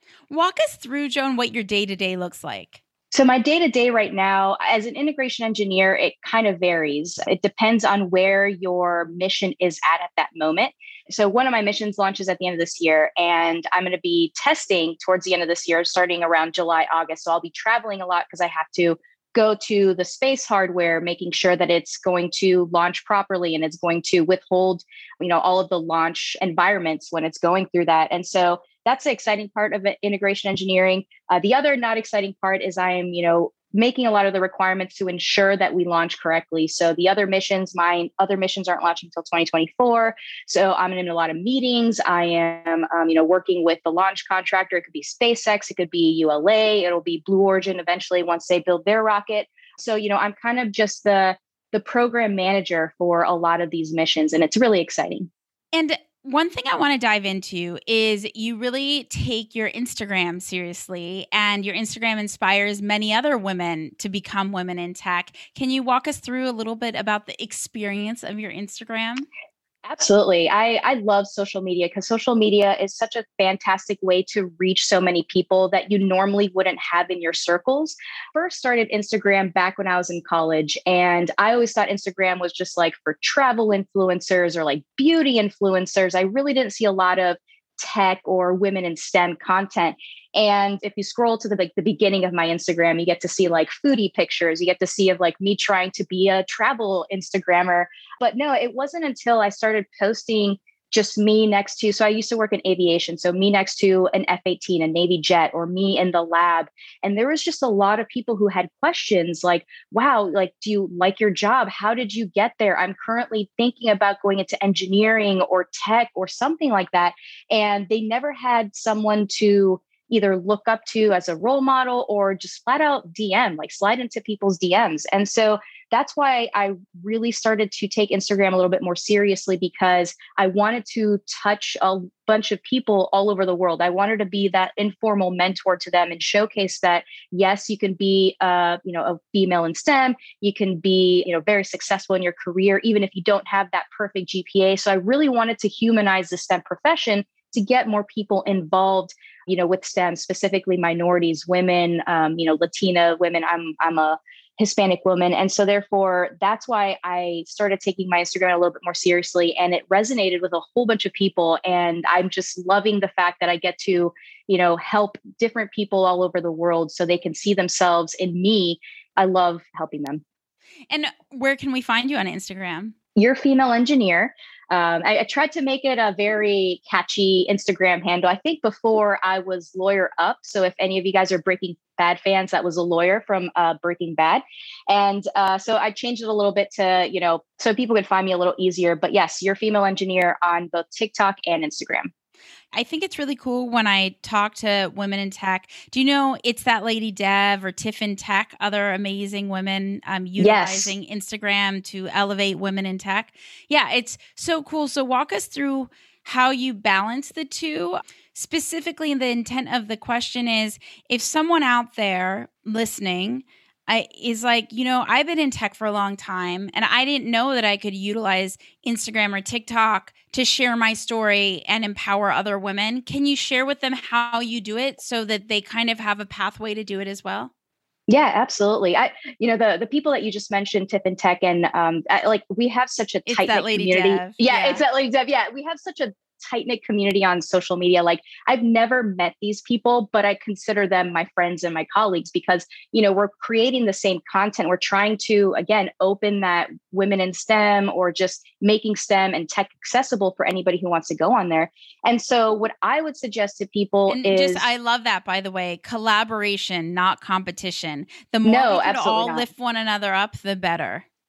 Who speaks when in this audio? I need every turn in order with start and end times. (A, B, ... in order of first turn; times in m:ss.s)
0:00.3-0:02.8 A
0:03.1-0:55.3 B
0:55.7-1:09.2 A
1:09.8-2:50.2 B
2:50.9-2:52.9 A
2:53.2-3:12.1 B
3:12.7-3:47.5 A
3:20.4-3:20.9 B
3:48.1-4:14.6 B
3:53.3-3:54.8 A
4:14.1-4:21.0 A
4:18.4-4:19.5 B